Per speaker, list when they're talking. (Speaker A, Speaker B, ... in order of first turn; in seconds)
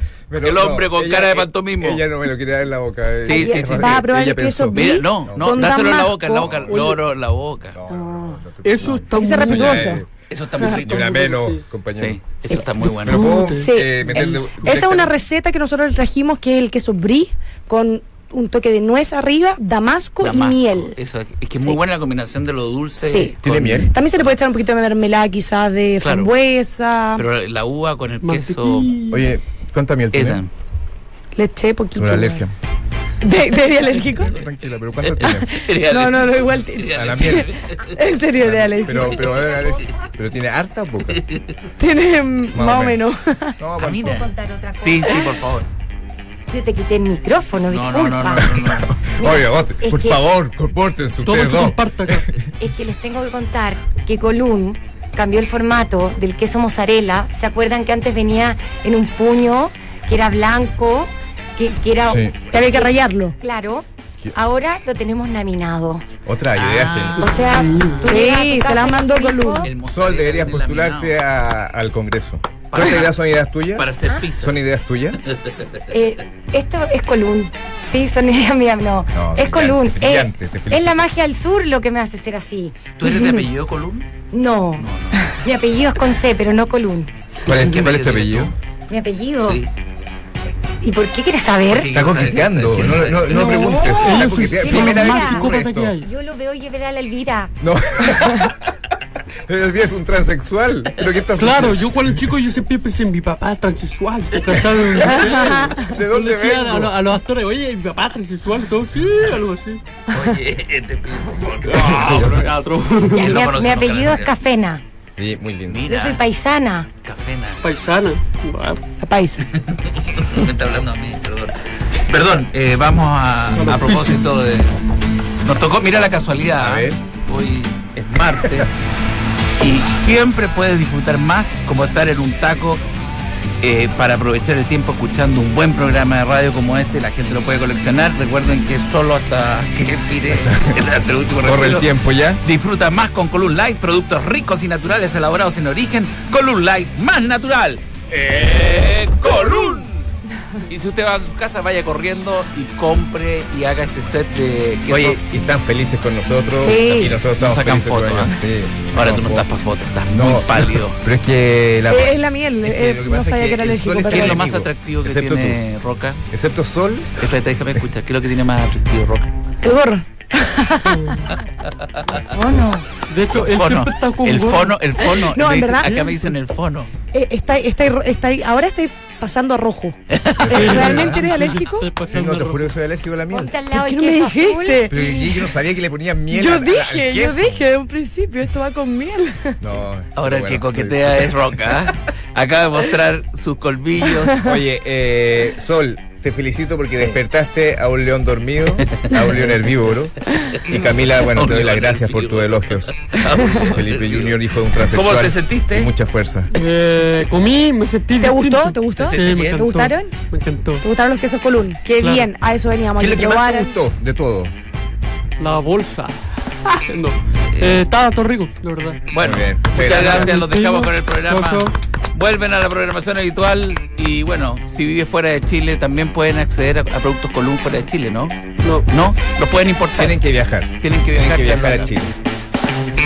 Speaker A: 0.3-5.8, 6.4-6.9, 7.7-10.1, 10.8-12.2, 12.8-15.1, 23.4-23.9, 29.1-30.4, 31.9-32.5, 33.8-35.5, 36.9-37.5, 38.4-41.2, 42.5-43.0, 43.6-44.2, 48.4-52.5, 62.0-62.4, 66.2-67.5, 69.8-75.2, 79.1-81.1, 87.4-88.5, 91.9-95.9, 97.6-98.7, 99.5-101.8, 104.5-106.9, 115.2-115.9, 126.6-127.0, 140.4-140.8, 141.4-142.4, 154.9-159.5, 160.1-165.6, 166.3-167.2, 180.4-181.3, 182.1-183.5, 184.9-187.6, 189.6-191.9, 194.4-206.5, 213.0-214.5, 219.2-220.4, 230.0-232.1
Speaker B: 0.4-2.0, 3.2-4.1, 4.7-7.8, 10.3-11.3, 11.9-13.4, 20.2-24.3, 26.0-26.3, 27.1-28.9, 30.1-30.5, 35.0-38.0, 41.1-41.5, 43.8-45.7, 47.7-48.9, 66.5-67.6, 69.5-71.2, 72.7-73.1, 73.7-74.6, 75.2-75.9, 83.0-84.1, 84.8-85.3, 87.5-88.5, 89.4-89.7, 91.7-93.5, 110.1-112.5, 113.2-114.3, 115.7-116.2, 117.0-117.7, 119.5-124.7, 125.4-128.7, 129.6-132.8, 133.6-141.9, 142.4-150.1, 150.7-155.2, 157.2-158.4, 158.9-161.0, 164.0-166.2, 167.2-169.3, 171.3-172.3, 173.3-176.9, 180.1-180.8, 190.2-194.4, 198.9-199.6, 200.4-205.9, 209.1-209.7, 219.1-228.4, 228.9-230.2, 230.8-231.9
Speaker C: 3.3-6.8, 7.9-8.4, 9.1-10.0, 13.6-20.9, 23.0-27.2, 31.4-32.4, 33.2-34.4, 35.2-39.4, 41.8-43.6, 62.5-63.4, 68.0-69.7, 105.0-105.9, 119.0-119.5, 156.6-157.2, 161.9-164.4, 169.6-171.3, 175.1-176.3, 177.1-180.0, 180.5-181.9, 183.7-185.4, 186.3-189.6, 208.2-210.1, 210.8-213.7
Speaker D: 8.6-10.0, 10.8-11.6, 12.6-14.6, 28.2-29.3, 51.2-52.3, 67.2-68.0, 93.3-96.1, 101.4-109.8, 111.6-113.4, 117.6-118.8, 123.5-124.3, 170.9-171.3, 173.1-174.8, 180.5-182.7, 206.5-210.8, 212.0-212.3, 215.4-219.1, 219.7-221.7
Speaker E: 38.9-40.0, 44.0-45.4, 46.5-48.5, 49.2-50.2, 52.6-66.0, 67.2-69.7, 75.9-83.4, 84.3-87.1, 88.9-89.6, 90.8-91.9, 93.3-97.5, 113.2-114.8, 115.9-116.9, 172.1-172.9, 183.3-184.9